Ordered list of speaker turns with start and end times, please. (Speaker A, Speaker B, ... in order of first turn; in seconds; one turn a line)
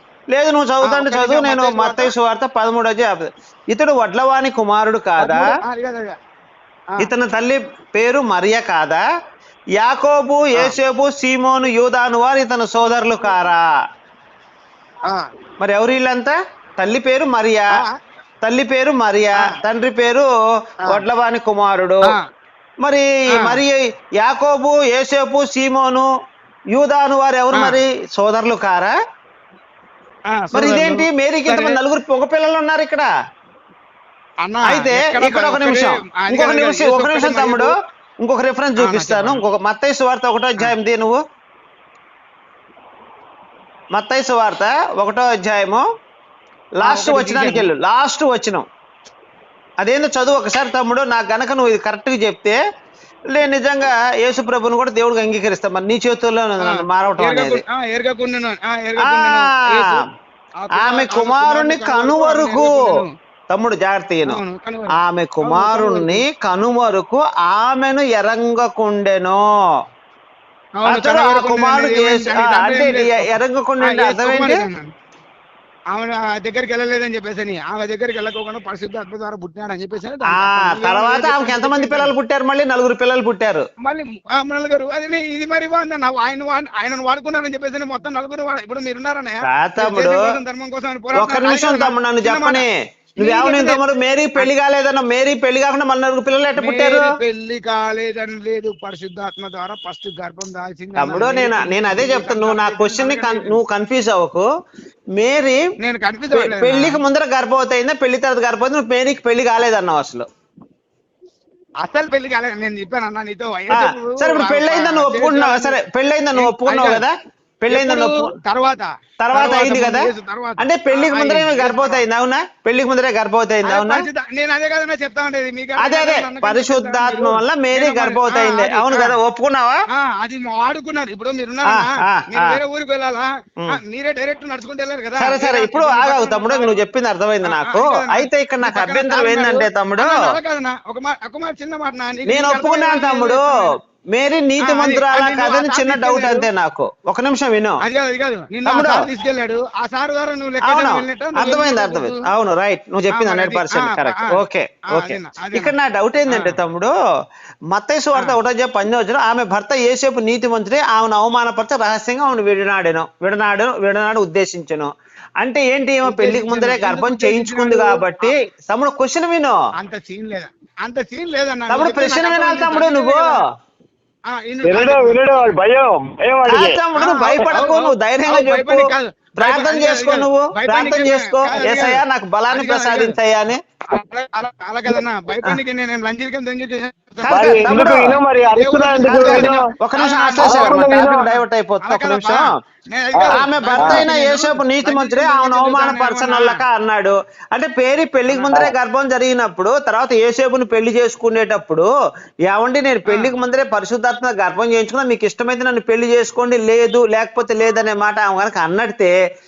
Speaker A: 0.3-5.5
Speaker B: 0.8-2.1
Speaker B: 5.2-6.2
Speaker A: 7.0-9.0
Speaker A: 9.8-13.7
Speaker A: 15.6-17.7
Speaker A: 18.4-22.1
Speaker A: 22.8-26.1
Speaker B: 23.3-23.6
Speaker A: 26.7-28.9
Speaker B: 27.5-27.8
Speaker B: 30.3-31.8
Speaker A: 30.5-33.1
Speaker B: 34.4-37.7
Speaker A: 34.6-41.2
Speaker B: 38.8-39.4
Speaker A: 43.9-45.8
Speaker A: 46.8-48.6
Speaker B: 46.8-47.7
Speaker A: 49.8-52.6
Speaker A: 53.3-57.6
Speaker B: 56.6-60.0
Speaker A: 59.0-60.0
Speaker B: 60.6-63.1
Speaker A: 60.8-62.9
Speaker A: 63.5-64.4
Speaker B: 64.2-66.2
Speaker A: 65.0-69.4
Speaker B: 70.8-74.9
Speaker A: 70.8-74.7
Speaker B: 75.9-82.1
Speaker A: 80.3-83.7
Speaker B: 83.8-92.6
Speaker A: 89.5-90.3
Speaker A: 91.1-97.1
Speaker B: 93.2-93.8
Speaker B: 96.5-103.5
Speaker A: 101.0-104.5
Speaker A: 105.2-105.6
Speaker B: 105.8-107.0
Speaker A: 106.3-110.2
Speaker B: 111.8-115.8
Speaker A: 113.7-118.3
Speaker B: 116.3-117.0
Speaker B: 117.7-122.0
Speaker A: 119.2-124.1
Speaker B: 123.6-129.2
Speaker A: 125.8-129.8
Speaker B: 129.9-136.8
Speaker A: 131.6-132.6
Speaker A: 135.2-140.2
Speaker B: 137.4-143.7
Speaker A: 142.3-147.8
Speaker B: 144.6-146.5
Speaker B: 147.8-152.2
Speaker A: 148.7-149.0
Speaker A: 150.6-156.9
Speaker B: 153.1-155.7
Speaker B: 156.3-156.6
Speaker A: 157.7-169.6
Speaker B: 166.0-168.3
Speaker B: 169.8-173.4
Speaker A: 171.7-173.4
Speaker B: 174.3-175.2
Speaker C: 174.6-176.8
Speaker A: 176.4-183.6
Speaker B: 176.9-183.2
Speaker B: 183.9-187.9
Speaker A: 187.2-188.2
Speaker C: 187.3-189.6
Speaker B: 188.5-191.1
Speaker A: 189.0-192.5
Speaker C: 190.4-191.2
Speaker B: 191.8-196.6
Speaker C: 193.2-194.0
Speaker A: 193.3-201.9
Speaker B: 198.3-198.6
Speaker A: 202.5-209.1
Speaker B: 203.1-203.3